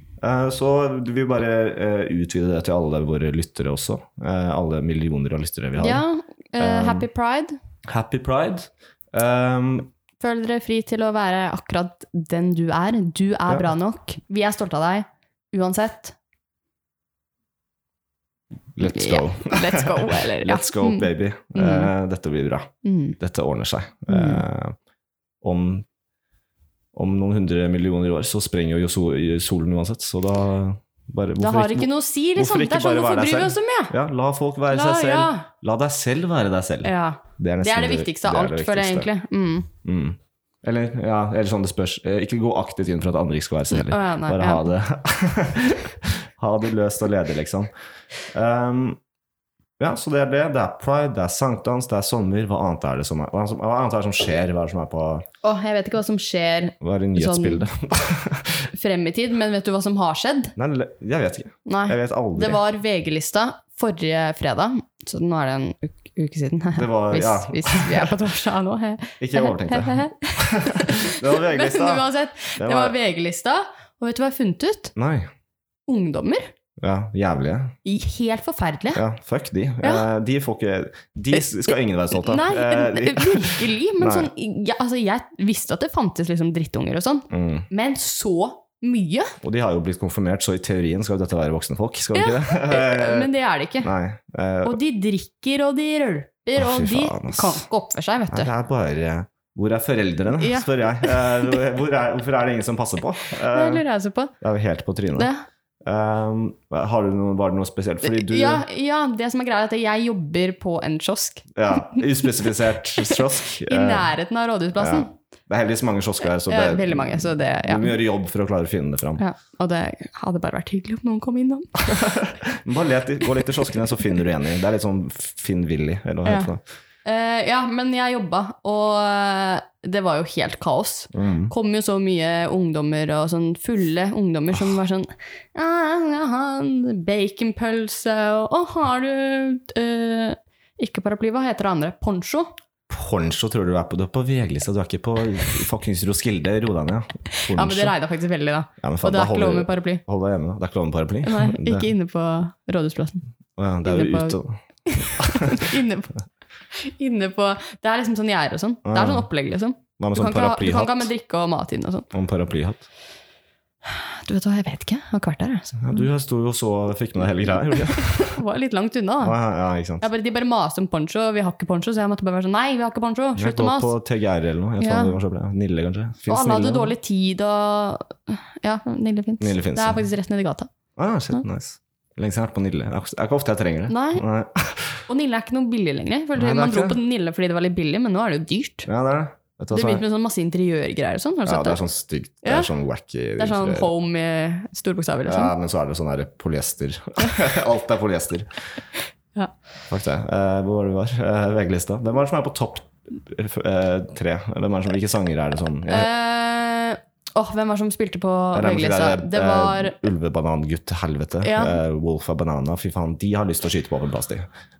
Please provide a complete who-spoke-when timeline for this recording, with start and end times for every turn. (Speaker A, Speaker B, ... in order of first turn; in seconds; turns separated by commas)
Speaker A: 0.2-6.0, Speaker B: 5.8-7.6, Speaker A: 6.6-7.1, Speaker A: 7.8-9.9, Speaker B: 10.2-16.1, Speaker A: 18.7-24.8, Speaker B: 18.8-21.9, Speaker B: 22.8-23.1, Speaker B: 24.1-24.4, Speaker A: 25.4-25.9, Speaker A: 26.9-39.1, Speaker B: 31.4-33.9, Speaker B: 34.7-35.5, Speaker B: 36.8-39.7, Speaker A: 39.8-47.7, Speaker B: 43.7-44.7, Speaker A: 48.3-49.0, Speaker A: 49.8-55.3, Speaker B: 55.4-57.6, Speaker A: 56.8-58.7, Speaker B: 58.7-60.5, Speaker A: 60.5-62.6, Speaker B: 61.6-74.9, Speaker A: 66.7-68.2, Speaker A: 69.2-73.0, Speaker A: 74.9-75.3, Speaker B: 75.9-76.5, Speaker A: 76.8-77.8, Speaker B: 77.8-79.0, Speaker A: 78.9-84.3, Speaker B: 82.2-89.3, Speaker A: 87.3-87.7, Speaker A: 89.4-93.3, Speaker B: 92.1-93.9, Speaker A: 93.8-94.8, Speaker B: 94.6-98.5, Speaker A: 96.5-97.6, Speaker A: 98.3-103.8, Speaker B: 100.4-101.6, Speaker B: 103.5-104.3, Speaker A: 104.4-105.3, Speaker B: 105.1-105.4, Speaker A: 105.8-108.6, Speaker B: 108.0-112.5, Speaker A: 111.5-114.1, Speaker B: 113.0-115.1, Speaker A: 114.8-119.2, Speaker B: 116.5-118.0, Speaker B: 119.2-121.7, Speaker A: 121.9-126.6, Speaker B: 126.2-126.5, Speaker B: 127.0-142.5, Speaker A: 131.1-131.5, Speaker A: 142.9-147.9, Speaker B: 147.5-150.0, Speaker A: 148.8-151.9, Speaker B: 151.2-153.2, Speaker A: 153.6-155.7, Speaker B: 153.8-156.1, Speaker B: 156.7-162.1, Speaker A: 158.8-159.3, Speaker A: 160.0-161.1, Speaker A: 162.1-162.9, Speaker B: 163.8-166.1, Speaker A: 165.8-168.4, Speaker B: 167.7-169.4, Speaker A: 169.2-170.1, Speaker B: 170.0-173.9, Speaker A: 173.3-176.9, Speaker B: 174.8-175.1, Speaker B: 176.3-180.7, Speaker A: 179.4-180.1, Speaker A: 181.0-185.0, Speaker B: 183.9-184.2, Speaker B: 185.1-188.9, Speaker A: 186.3-187.0, Speaker A: 188.8-190.0, Speaker B: 189.7-191.8, Speaker A: 191.4-193.9, Speaker B: 192.4-192.7, Speaker B: 193.4-195.5, Speaker A: 195.3-198.6, Speaker A: 199.9-206.1, Speaker B: 205.8-210.0, Speaker A: 208.5-214.5, Speaker B: 211.4-211.8